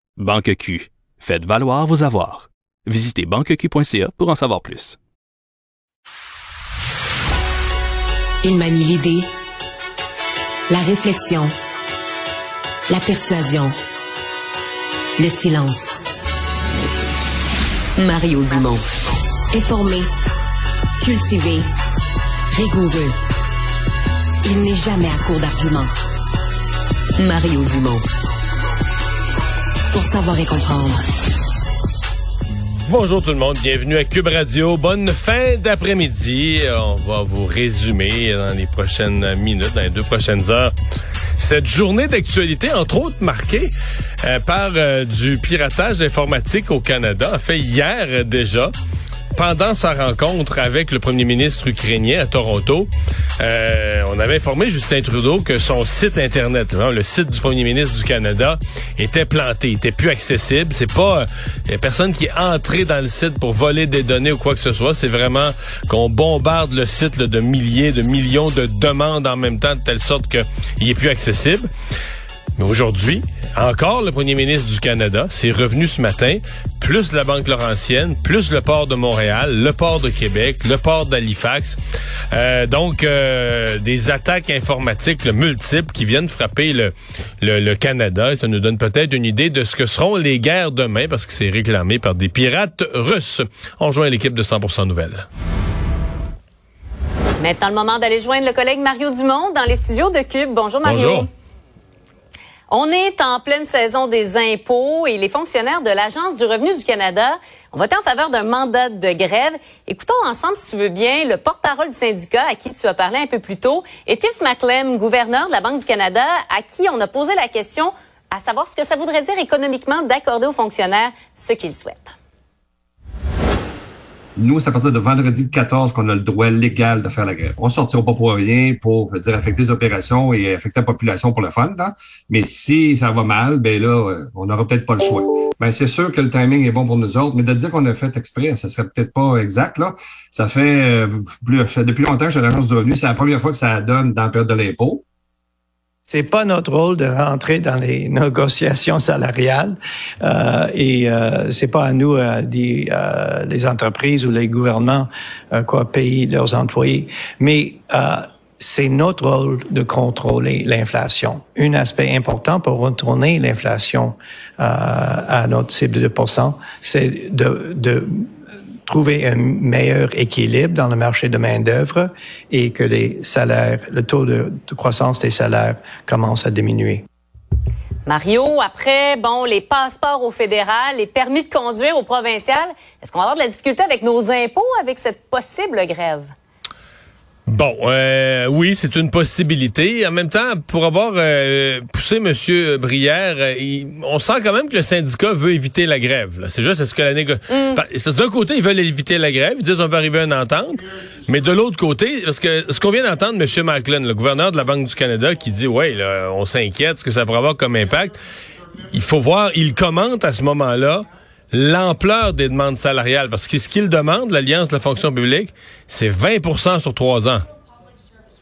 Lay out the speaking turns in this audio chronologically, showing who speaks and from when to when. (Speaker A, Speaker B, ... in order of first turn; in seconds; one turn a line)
Speaker A: 0.2-5.0
Speaker B: 8.4-9.3
Speaker B: 10.7-11.5
Speaker B: 12.9-13.7
Speaker B: 15.2-16.0
Speaker B: 17.9-18.8
Speaker B: 19.5-20.1
Speaker B: 21.0-21.7
Speaker B: 22.5-23.1
Speaker B: 24.4-25.9
Speaker B: 27.2-28.0
Speaker B: 29.9-31.0
Speaker C: 32.5-40.7
Speaker C: 41.4-48.7
Speaker C: 49.3-71.7
Speaker C: 72.6-81.8
Speaker C: 82.3-95.2
Speaker D: 97.4-101.3
Speaker C: 100.8-101.3
Speaker D: 102.7-122.1
Speaker E: 124.4-145.0
Speaker F: 146.1-168.2
Speaker F: 168.9-177.0
Speaker D: 178.1-186.3
Speaker C: 187.5-208.2
Speaker D: 197.5-197.8
Speaker C: 208.8-217.4